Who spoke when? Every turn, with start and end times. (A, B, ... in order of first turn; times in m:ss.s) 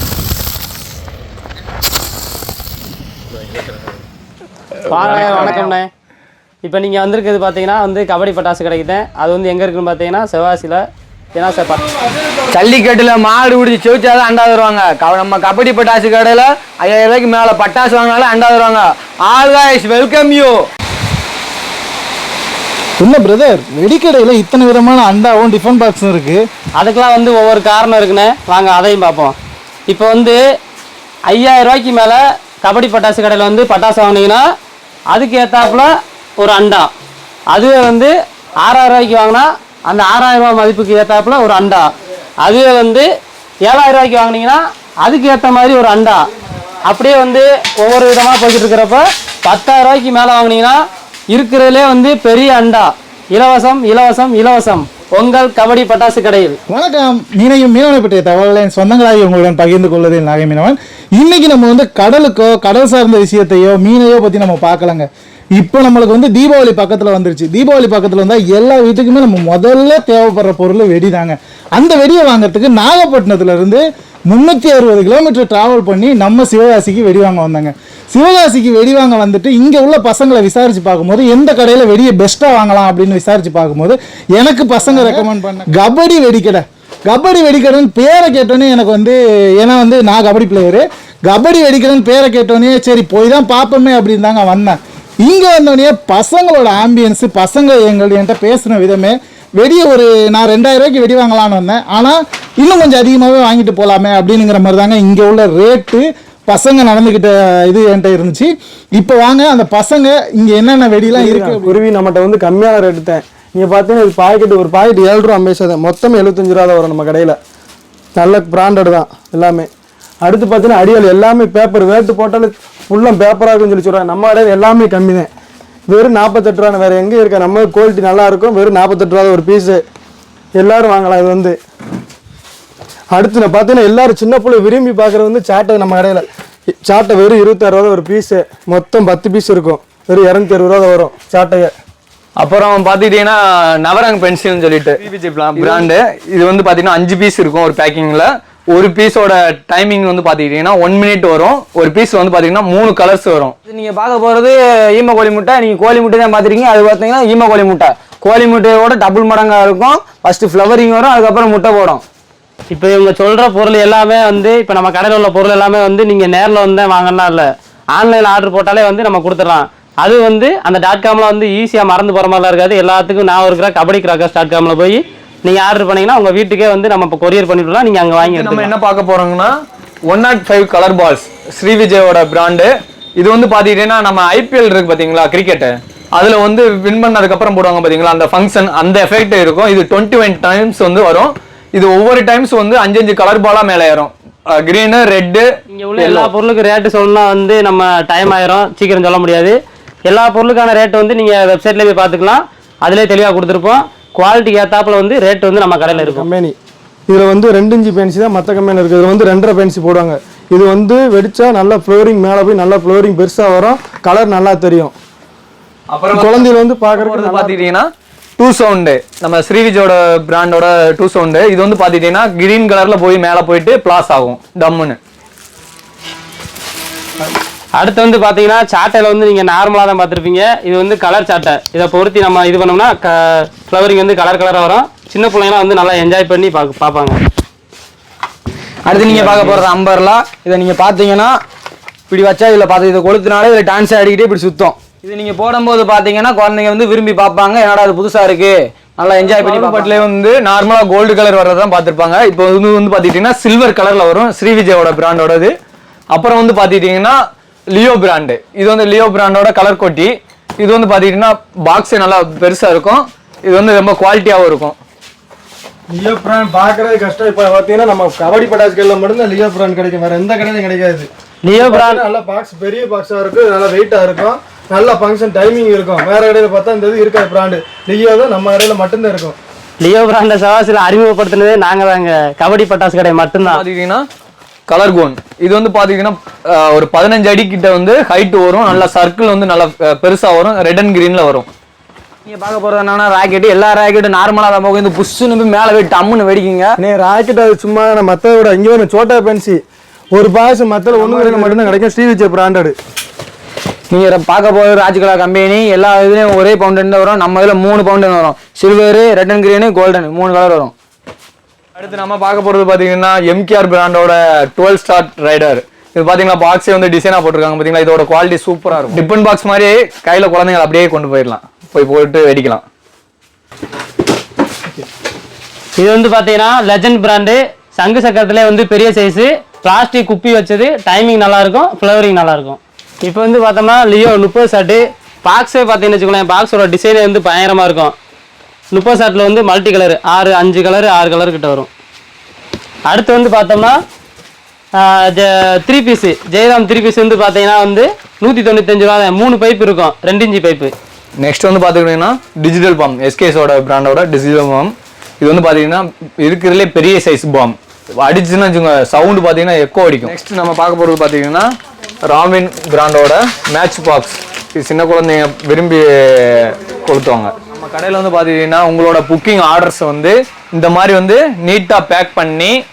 0:04.9-0:05.9 A
0:05.1-0:05.8 B
0:06.6-0:10.8 A
0:11.3-0:11.9 A
0:12.5-0:20.6 B
0:23.0-0:26.4 C
0:26.8-0:29.4 A
0:29.9-0:30.4 A
0:31.3-0:34.4 A
0:35.1-0:36.9 A
0:37.5-0:41.9 A
0:42.4-0:43.1 A
0:43.7-0:46.2 A
0:46.9-0:50.8 A
0:51.3-0:56.6 A
0:56.7-1:51.8 C
1:51.1-1:57.4 D
1:58.2-1:59.7 D
2:00.2-2:05.3 D
2:05.9-2:09.8 D
2:10.6-2:11.6 D
2:13.1-2:21.7 D
2:22.4-2:33.5 E
2:25.4-2:25.8 B
2:33.7-2:42.0 B
2:42.7-2:58.7 A
2:58.2-2:59.5 E
3:00.1-3:15.5 E
3:15.8-3:19.6 A
3:16.0-3:16.3 E
3:20.1-3:26.3 A
3:25.9-3:26.6 D
3:27.1-3:35.0 D
3:35.9-3:45.0 E
3:36.1-3:37.7 D
3:47.8-3:57.2 A
3:58.9-4:01.4 B
4:02.1-4:10.0 B
4:09.3-4:15.5 E
4:16.1-4:17.2 E
4:17.8-4:24.8 E
4:25.9-4:39.4 D
4:31.5-4:32.0 A
4:39.8-4:43.6 A
4:43.4-4:44.0 E
4:44.7-4:51.5 E
4:52.3-4:56.8 B
4:56.8-4:59.6 D
5:00.1-5:02.8 D
5:00.9-5:01.8 B
5:03.9-5:10.7 B
5:11.8-5:22.6 E
5:25.8-5:37.9 A
5:38.7-5:41.7 A
5:42.9-5:43.8 A
5:44.8-5:50.7 A
5:51.2-6:01.5 E
6:02.1-6:12.6 E